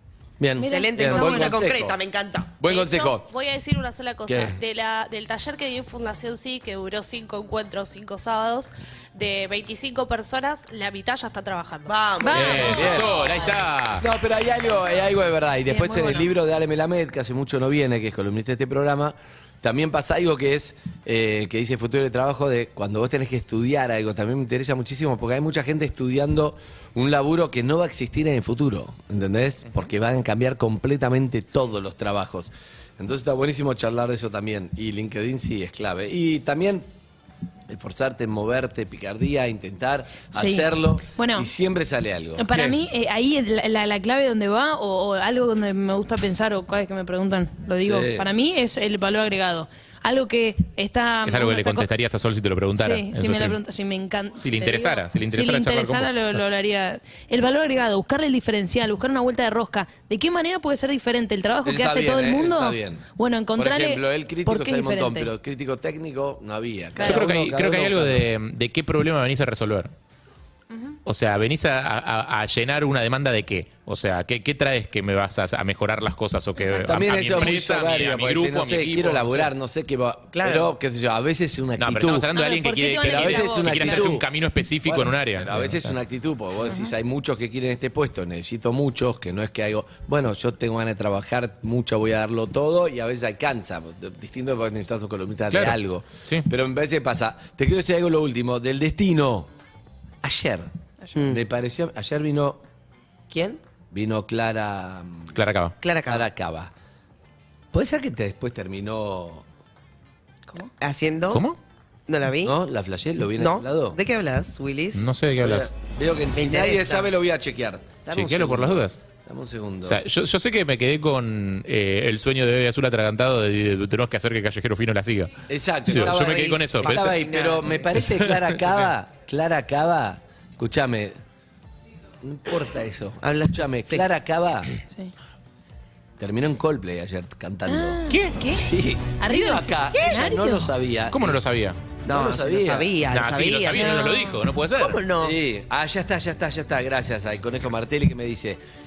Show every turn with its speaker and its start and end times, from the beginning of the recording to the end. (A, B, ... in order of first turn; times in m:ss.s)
0:00.4-0:02.0 A
0:00.6-0:01.6 B
0:00.6-0:02.6 C
0:02.6-0:03.3 A
0:02.6-0:11.9 D
0:04.3-0:04.6 A
0:11.8-0:12.8 C
0:12.2-0:13.3 B
0:12.3-0:14.0 E
0:12.6-0:13.1 A
0:14.0-0:36.9 A
0:15.7-0:16.3 B
0:37.7-0:42.8 A
0:40.3-0:41.5 B
0:42.4-0:51.9 B
0:47.8-0:48.3 A
0:51.2-0:53.6 E
0:52.8-1:05.3 B
0:54.4-0:56.4 E
1:01.6-1:08.3 A
1:07.0-1:07.3 B
1:07.0-1:09.9 E
1:11.0-1:19.5 E
1:16.6-1:17.4 B
1:16.8-1:22.3 A
1:20.4-1:20.7 C
1:21.8-1:25.9 E
1:22.3-1:24.2 B
1:23.0-1:24.2 A
1:24.8-1:39.5 A
1:35.5-1:36.5 E
1:40.2-1:40.7 A
1:41.1-1:41.4 C
1:41.3-1:42.6 A
1:43.3-1:43.6 C
1:43.9-1:45.4 A
1:45.3-1:45.8 E
1:45.8-1:46.2 C
1:46.0-1:46.7 A
1:47.7-1:49.4 A
1:50.8-1:51.4 C
1:51.3-1:51.6 E
1:52.1-1:52.5 C
1:52.4-1:54.0 A
1:53.4-1:55.1 C
1:54.9-1:55.7 E
1:55.4-2:00.0 A
1:56.3-1:57.1 C
1:58.1-1:59.0 E
1:59.8-2:05.3 E
2:05.5-2:11.2 A
2:05.8-2:07.2 E
2:05.9-2:08.0 C
2:08.0-2:08.5 E
2:12.2-2:14.7 A
2:13.2-2:14.1 C
2:14.9-2:15.1 B
2:16.2-2:21.4 A
2:17.7-2:18.7 B
2:18.1-2:18.4 E
2:19.2-2:20.7 B
2:21.1-2:21.8 E
2:22.0-2:22.9 A
2:22.1-2:24.2 C
2:23.1-2:25.0 E
2:23.7-2:24.4 B
2:24.8-2:25.4 C
2:25.2-2:28.6 A